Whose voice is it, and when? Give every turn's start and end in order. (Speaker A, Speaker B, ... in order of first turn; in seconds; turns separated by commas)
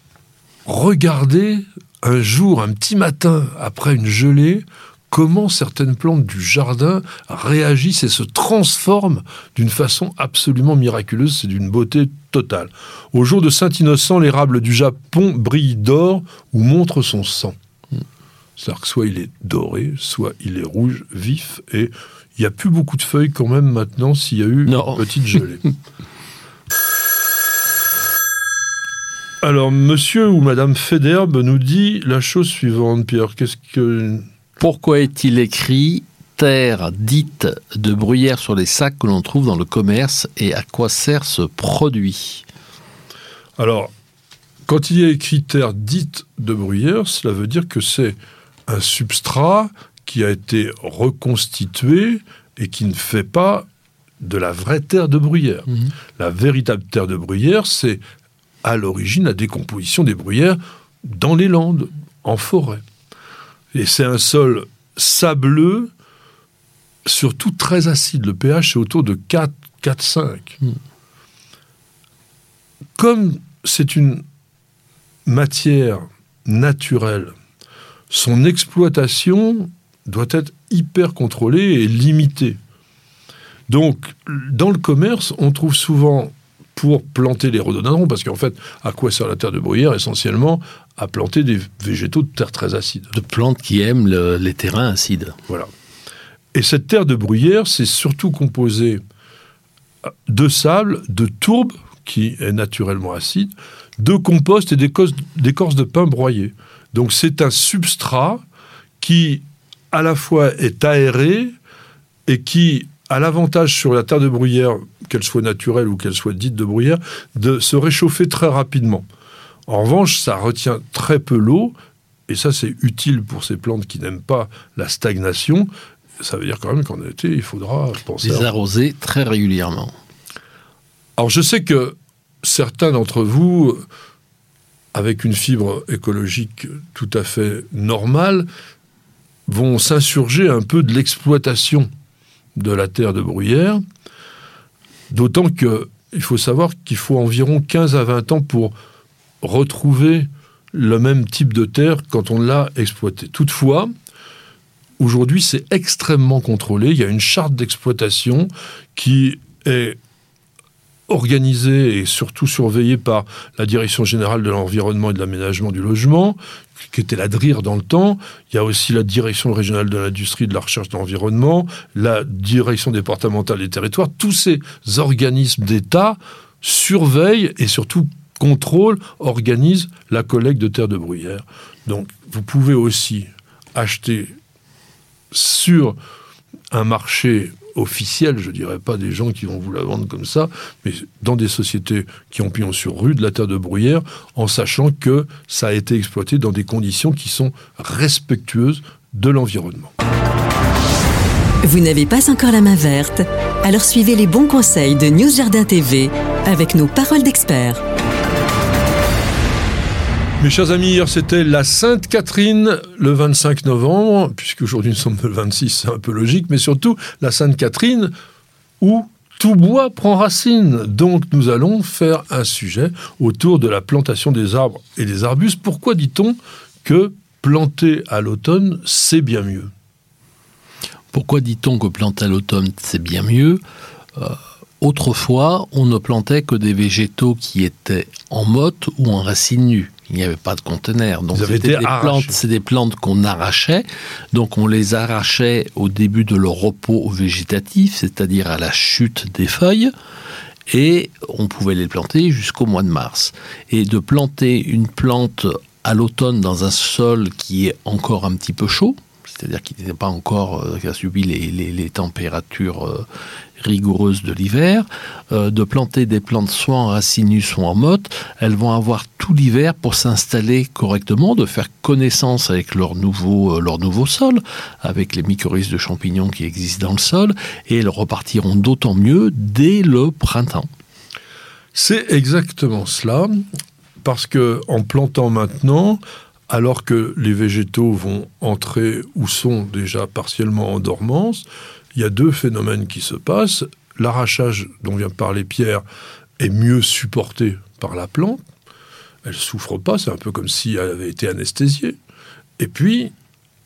Speaker A: 0.7-17.5, Speaker A: 18.6-25.6, Speaker B: 24.7-25.4, Speaker A: 29.4-34.2, Speaker B: 34.6-42.4, Speaker A: 43.6-43.9, Speaker A: 44.6-53.7, Speaker A: 54.2-58.0, Speaker A: 58.6-62.8, Speaker A: 63.7-65.9, Speaker A: 67.0-70.6, Speaker A: 73.0-74.2, Speaker A: 75.2-77.3, Speaker A: 78.1-82.6, Speaker A: 83.7-93.1, Speaker B: 93.1-95.4, Speaker A: 96.5-99.0, Speaker A: 100.3-108.4, Speaker A: 109.0-111.5, Speaker A: 112.3-119.1, Speaker A: 119.7-121.8, Speaker A: 122.3-125.7, Speaker A: 126.2-128.5, Speaker B: 128.2-129.9, Speaker A: 131.2-133.8, Speaker A: 134.9-138.5, Speaker A: 139.5-141.9, Speaker A: 142.6-143.8, Speaker A: 145.1-148.7, Speaker A: 149.4-153.9, Speaker A: 155.0-160.0, Speaker A: 161.1-184.3, Speaker A: 185.3-186.0, Speaker A: 186.7-199.9, Speaker C: 201.6-207.8, Speaker A: 210.4-218.1, Speaker A: 218.8-229.7, Speaker B: 231.1-233.6, Speaker B: 234.2-249.9, Speaker A: 241.3-242.4, Speaker B: 250.7-263.1, Speaker B: 263.6-280.7, Speaker A: 281.7-283.4, Speaker A: 284.0-295.8, Speaker A: 296.4-298.4, Speaker A: 299.2-302.0, Speaker A: 302.6-303.1